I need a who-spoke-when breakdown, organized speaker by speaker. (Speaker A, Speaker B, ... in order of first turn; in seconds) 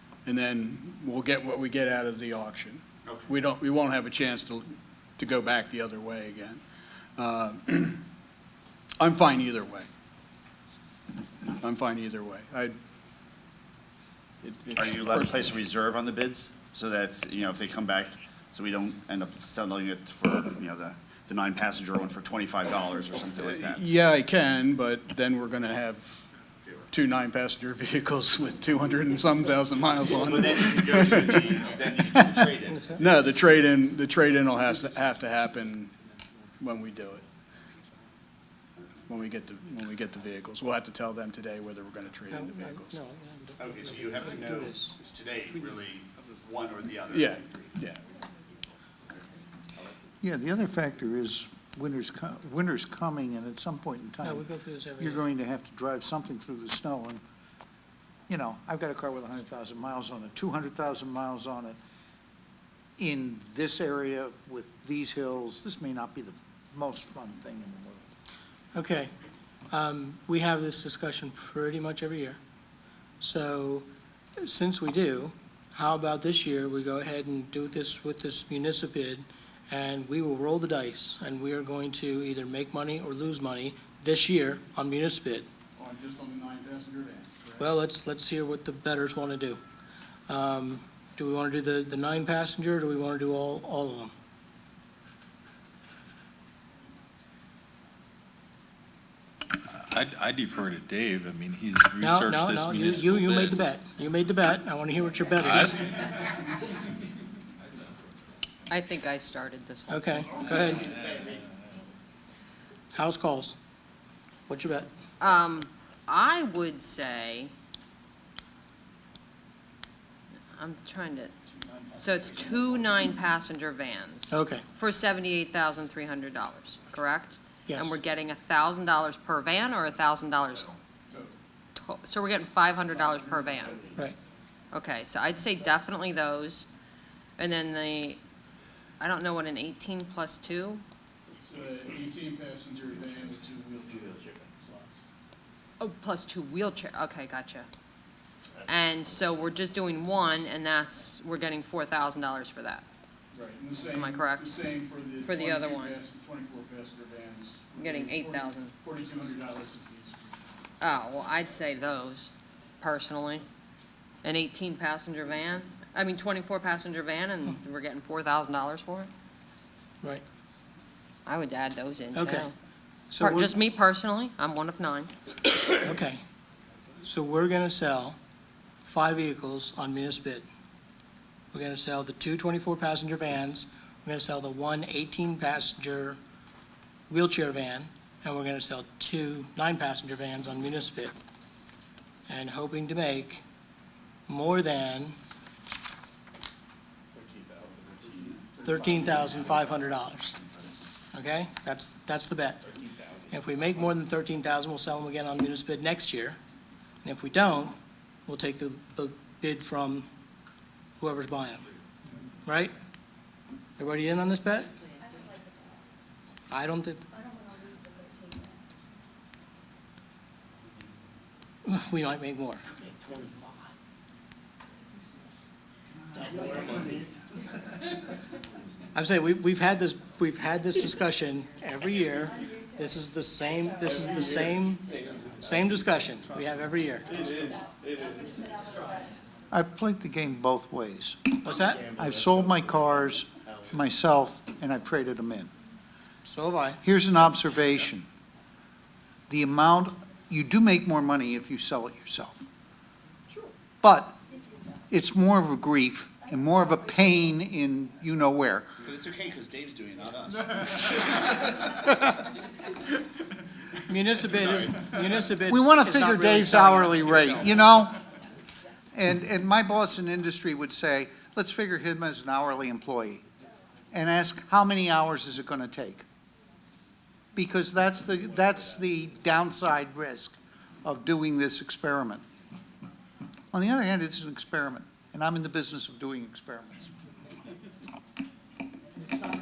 Speaker A: 0.3-6.6, 7.2-8.0, 9.0-9.9, 11.6-12.8, 14.4-15.5, 23.3-26.3, 26.9-31.7, 33.0-35.9, 36.6-37.2, 39.1-43.0, 47.1-48.0, 85.8-87.7, 133.0-134.0, 141.4-145.0, 153.3-160.3
Speaker B: 3.0-3.3, 14.7-23.9, 30.1-33.0, 43.6-47.8, 142.9-143.3, 143.9-144.5, 148.6-149.1, 197.2-199.3, 241.5-243.8, 258.8-261.9
Speaker C: 32.7-33.0, 42.3-44.9, 54.2-55.2, 68.7-69.1, 69.7-72.4, 73.2-73.9, 74.4-85.5, 87.6-89.6, 90.3-94.1, 102.0-105.8, 109.9-110.9, 112.9-113.6, 114.5-114.9, 124.3-124.6, 127.7-127.9, 172.1-172.5, 173.1-173.6, 175.7-176.2, 177.0-178.2, 178.8-180.5, 181.5-186.2, 187.1-191.1, 192.3-193.4, 194.3-195.2, 198.6-200.3, 201.1-202.6, 203.3-206.4, 207.0-210.1, 211.0-211.7, 212.5-212.7, 213.8-214.7, 216.5-217.0, 221.7-222.6, 228.9-234.8, 235.4-237.1, 241.4-241.8, 246.3-246.8, 263.9-267.6
Speaker D: 50.2-54.5, 55.0-57.2, 58.3-61.8, 63.0-68.1, 239.5-245.5, 246.8-248.1, 249.3-252.4, 253.8-254.2, 254.9-258.7, 265.5-268.0, 268.9-273.2, 273.9-276.1, 277.4-282.2, 283.5-286.9
Speaker E: 99.5-103.7, 105.4-105.9
Speaker F: 108.7-110.6, 115.2-117.5, 120.6-121.3, 122.0-130.8, 131.8-133.9, 134.7-136.7, 137.4-138.2, 139.0-140.8, 145.8-147.7, 148.7-152.8, 153.9-154.7, 155.2-156.0, 157.8-158.7, 160.8-163.4, 164.2-169.1, 171.3-172.5, 173.2-175.1